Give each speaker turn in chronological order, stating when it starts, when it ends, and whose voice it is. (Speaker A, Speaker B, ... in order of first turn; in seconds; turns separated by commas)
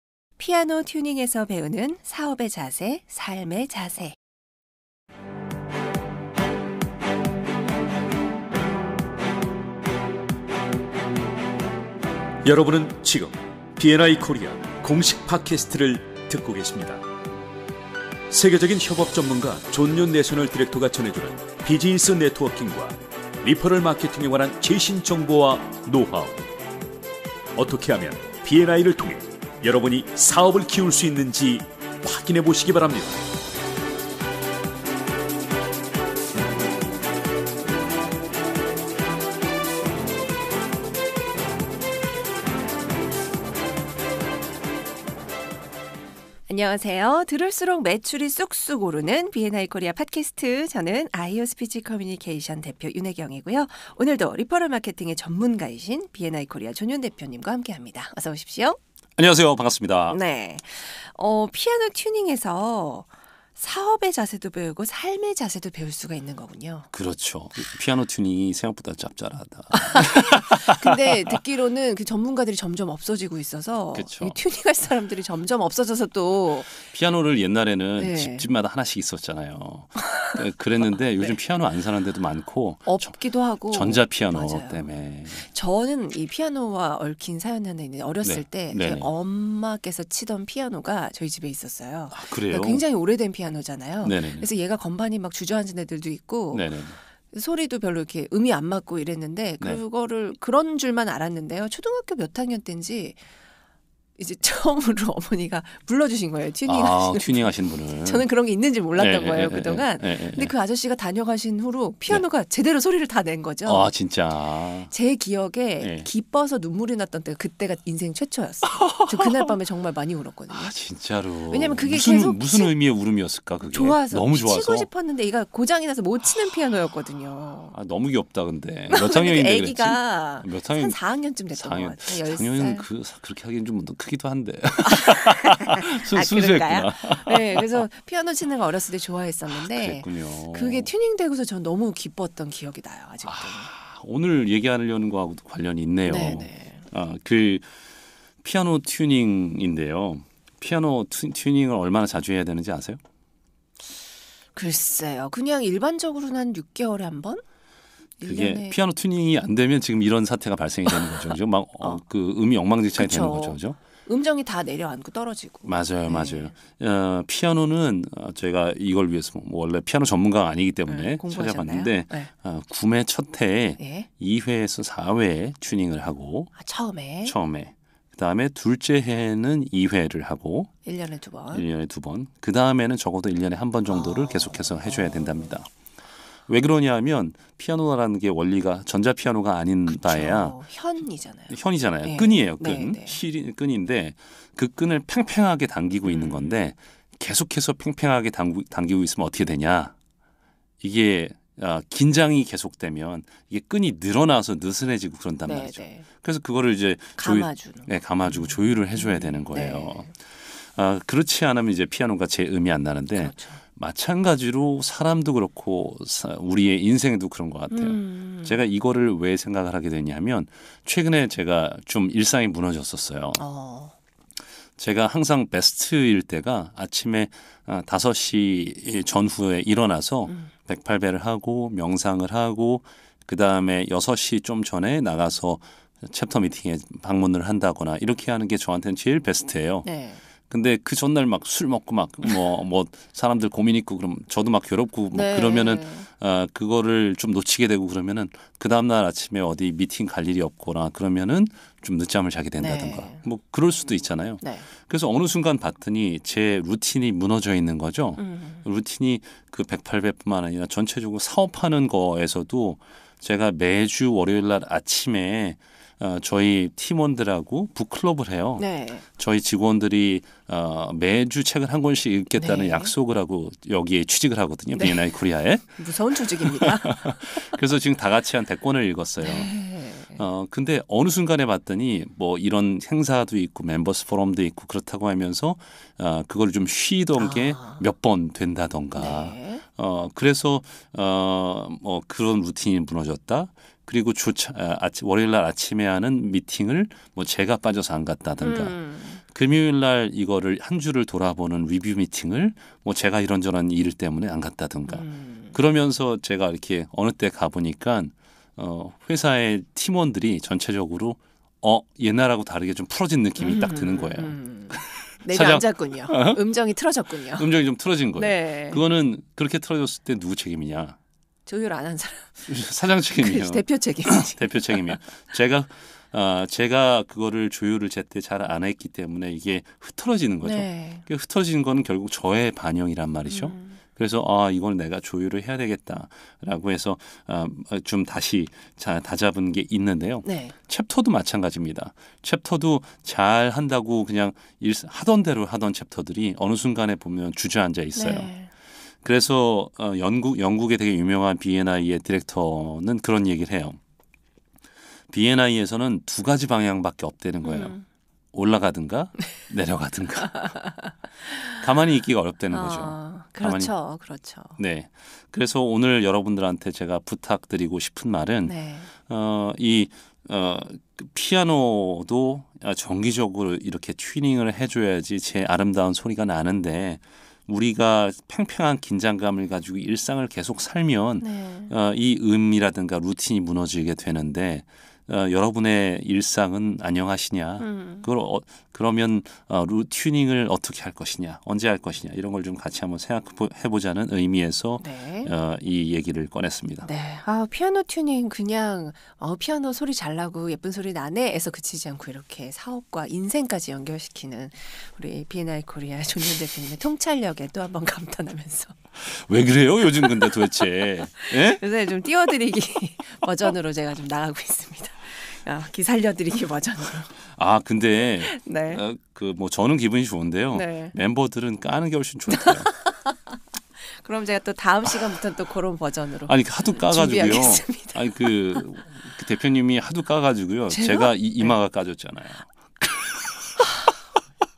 Speaker A: 0.4-4.2, Speaker B: 12.4-17.0, Speaker B: 18.3-26.4, Speaker B: 27.5-33.2, Speaker A: 46.5-58.8, Speaker C: 59.2-60.2, Speaker A: 60.1-66.9, Speaker C: 66.9-71.3, Speaker A: 69.8-76.8, Speaker C: 73.9-74.4, Speaker C: 76.8-83.2, Speaker A: 78.0-78.5, Speaker A: 82.8-96.7, Speaker C: 83.7-85.4, Speaker C: 88.2-89.1, Speaker C: 92.1-92.8, Speaker C: 94.0-94.5, Speaker C: 96.5-97.0, Speaker A: 97.3-103.2, Speaker A: 104.2-113.9, Speaker C: 106.7-108.3, Speaker C: 109.0-110.5, Speaker C: 113.6-114.9, Speaker A: 114.9-120.7, Speaker C: 115.8-116.1, Speaker C: 119.0-119.5, Speaker C: 120.5-124.9, Speaker A: 121.5-122.7, Speaker A: 123.7-127.7, Speaker C: 127.7-131.0, Speaker A: 128.9-132.8, Speaker C: 131.5-137.8, Speaker A: 134.8-143.7, Speaker C: 139.5-140.9, Speaker C: 143.2-147.7, Speaker A: 146.0-146.8, Speaker C: 148.4-153.0, Speaker A: 154.5-157.4, Speaker A: 158.2-158.8, Speaker C: 158.2-163.8, Speaker A: 163.0-166.5, Speaker C: 165.7-176.5, Speaker A: 170.9-172.3, Speaker A: 173.8-174.1, Speaker A: 176.6-177.3, Speaker C: 177.2-180.7, Speaker A: 180.8-181.6, Speaker C: 181.5-185.7, Speaker A: 183.9-185.3, Speaker C: 186.5-190.6, Speaker A: 189.9-193.2, Speaker C: 191.5-199.9, Speaker A: 196.1-196.5, Speaker C: 200.8-223.4, Speaker A: 205.4-206.1, Speaker A: 207.2-210.1, Speaker A: 213.1-213.6, Speaker A: 217.7-218.6, Speaker A: 223.4-223.9, Speaker C: 224.8-239.9, Speaker A: 239.8-240.2, Speaker C: 240.5-275.8, Speaker A: 245.1-246.1, Speaker A: 252.6-253.2, Speaker A: 254.4-254.7, Speaker A: 258.2-258.6, Speaker A: 268.6-269.0, Speaker A: 272.4-272.9, Speaker A: 274.8-275.0, Speaker A: 275.8-277.5, Speaker C: 276.4-279.5, Speaker A: 279.2-280.2, Speaker C: 280.1-316.4, Speaker A: 287.2-287.8, Speaker A: 288.9-289.6, Speaker A: 298.4-299.2, Speaker A: 304.9-305.6, Speaker A: 313.4-317.5, Speaker C: 317.3-320.9, Speaker A: 318.1-318.8, Speaker A: 321.4-322.6, Speaker C: 322.5-348.3, Speaker A: 323.1-325.1, Speaker A: 330.4-331.1, Speaker A: 333.2-333.8, Speaker A: 340.2-340.5, Speaker A: 347.9-348.5, Speaker C: 349.0-353.8, Speaker C: 355.1-357.8, Speaker A: 357.4-357.8, Speaker C: 358.3-360.5, Speaker A: 360.3-360.9, Speaker C: 361.6-363.7, Speaker A: 362.5-364.6, Speaker C: 364.6-396.9, Speaker A: 368.4-368.9, Speaker A: 381.2-381.7, Speaker A: 387.6-388.1, Speaker A: 394.8-395.3, Speaker A: 396.8-408.8, Speaker C: 409.0-411.6, Speaker A: 409.9-417.1, Speaker C: 417.3-422.7, Speaker A: 418.2-418.8, Speaker A: 420.5-421.0, Speaker A: 422.3-428.7, Speaker C: 426.3-433.3, Speaker A: 430.7-431.6